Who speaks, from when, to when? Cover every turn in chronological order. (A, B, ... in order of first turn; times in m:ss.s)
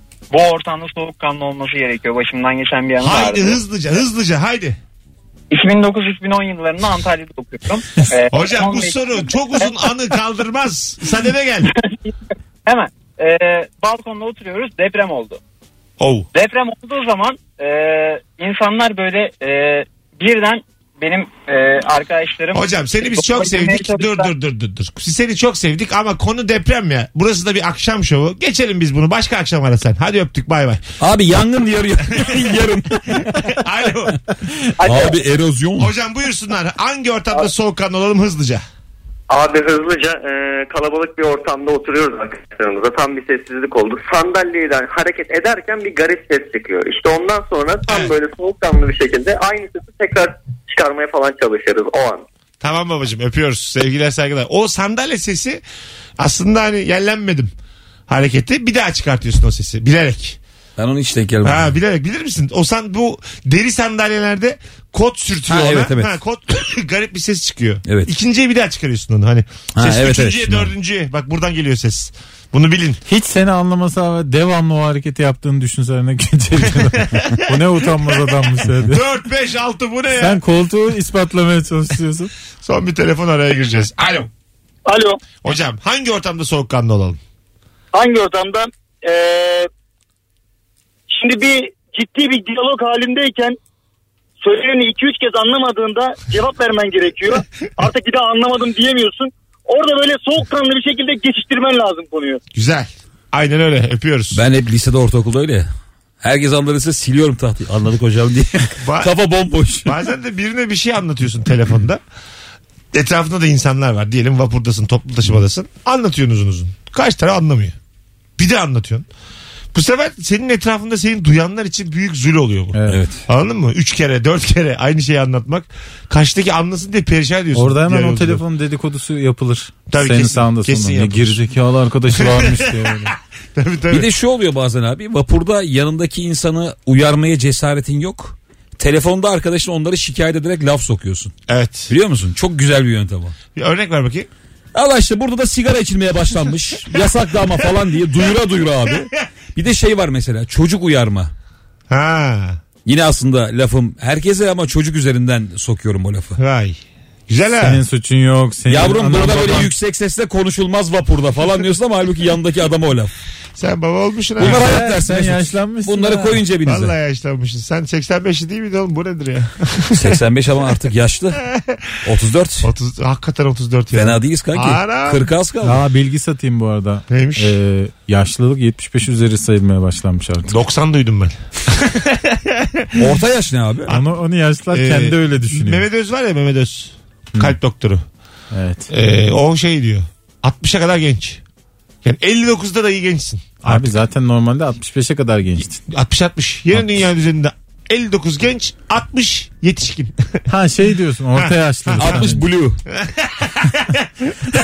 0:00.3-0:03.6 A
0:03.0-0:04.8 B
0:05.5-0:09.7 A
0:08.3-0:11.7 B
0:12.6-0:15.4 A
0:16.0-0:16.3 B
0:16.3-0:24.3 A
0:22.5-0:30.8 B
0:31.0-0:33.5 C
0:32.2-0:32.5 B
0:33.3-0:34.2 B
0:34.8-0:35.9 C
0:34.8-0:35.1 D
0:35.8-0:38.6 B
0:39.3-0:52.2 E
0:47.9-0:48.1 B
0:52.6-0:55.6 B
0:56.2-0:57.5 B
0:58.1-1:00.4 B
1:00.8-1:01.7 C
1:01.4-1:13.0 B
1:05.5-1:06.1 C
1:09.8-1:10.7 C
1:13.1-1:19.0 F
1:16.8-1:20.4 B
1:20.1-1:22.3 F
1:22.6-1:24.3 B
1:24.8-1:25.2 D
1:25.4-1:27.2 B
1:27.9-1:29.7 D
1:31.1-1:33.6 D
1:34.4-1:42.4 D
1:42.5-1:44.4 B
1:44.3-1:45.7 C
1:46.2-1:50.0 C
1:48.8-1:49.1 B
1:49.8-1:52.0 B
1:52.9-1:57.7 B
1:58.4-1:59.1 B
1:59.7-2:08.4 B
2:02.7-2:03.0 F
2:02.9-2:03.2 C
2:07.5-2:13.1 F
2:09.9-2:11.4 B
2:12.1-2:14.1 B
2:13.9-2:21.3 C
2:21.5-2:21.9 B
2:21.9-2:23.4 C
2:23.6-2:24.3 B
2:24.7-2:31.3 C
2:31.9-2:32.6 B
2:32.8-2:36.4 C
2:36.4-2:37.8 B
2:37.6-2:39.7 F
2:38.7-2:43.1 C
2:43.6-2:44.8 B
2:44.4-2:46.9 C
2:44.4-2:46.4 F
2:46.6-2:50.2 B
2:49.9-2:51.4 C
2:51.3-2:52.0 B
2:52.0-2:52.7 C
2:52.6-2:55.2 B
2:53.9-2:55.8 C
2:55.6-3:00.5 F
2:57.1-2:57.6 B
3:00.5-3:03.1 B
3:03.0-3:03.9 C
3:03.9-3:05.8 F
3:04.7-3:08.0 B
3:08.5-3:08.9 F
3:08.9-3:11.4 B
3:12.0-3:14.0 B
3:13.6-3:15.8 F
3:15.8-3:20.4 B
3:20.5-3:22.4 F
3:21.3-3:22.3 B
3:22.0-3:22.8 C
3:22.9-3:24.2 B